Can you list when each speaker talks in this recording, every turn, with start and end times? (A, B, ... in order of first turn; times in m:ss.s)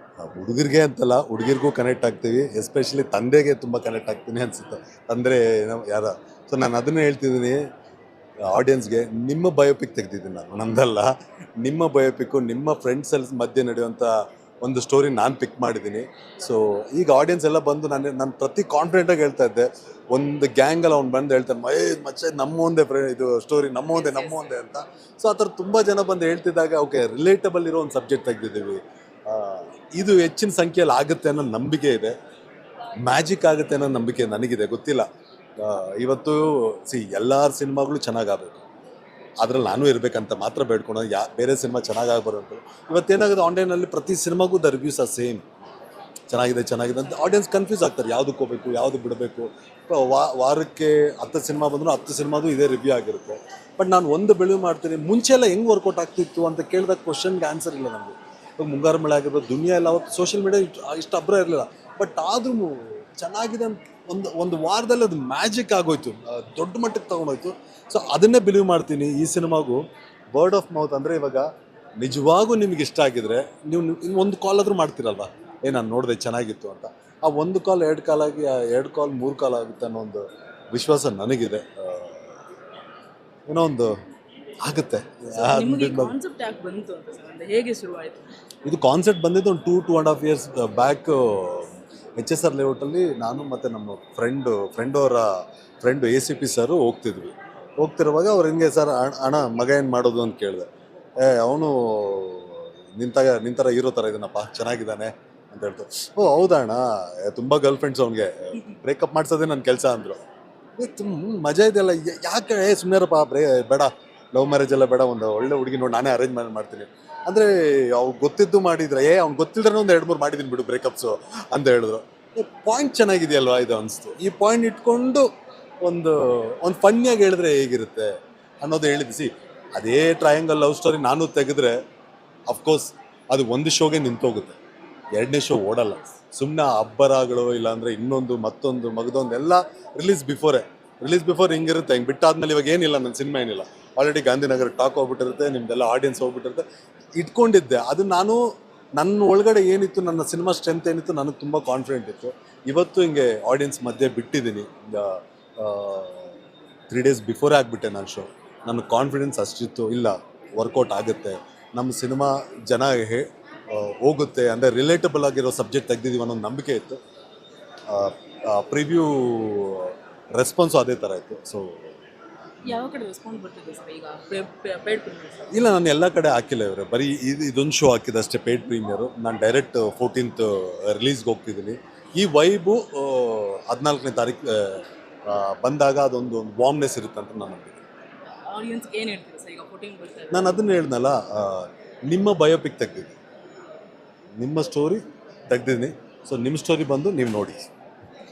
0:00.2-0:07.6 A
0:08.4-0:32.1 A
0:23.9-0:24.6 B
0:33.0-0:35.1 A
0:35.6-0:38.6 A
0:39.4-0:45.4 A
0:46.3-1:09.8 A
1:10.3-1:11.5 A
1:12.0-1:22.2 A
1:23.5-1:23.9 A
1:24.6-1:26.2 A
1:25.3-1:28.3 B
1:28.7-1:40.7 A
1:41.2-1:50.2 A
1:50.8-2:05.3 A
2:05.8-2:11.8 A
2:12.5-2:14.6 A
2:15.2-2:26.6 A
2:27.2-2:28.4 A
2:29.0-2:36.4 A
2:36.9-2:47.0 A
2:47.9-2:51.9 A
2:52.6-2:55.5 B
2:55.5-3:07.8 A
3:08.5-3:10.5 B
3:10.3-3:13.1 A
3:14.4-3:17.7 A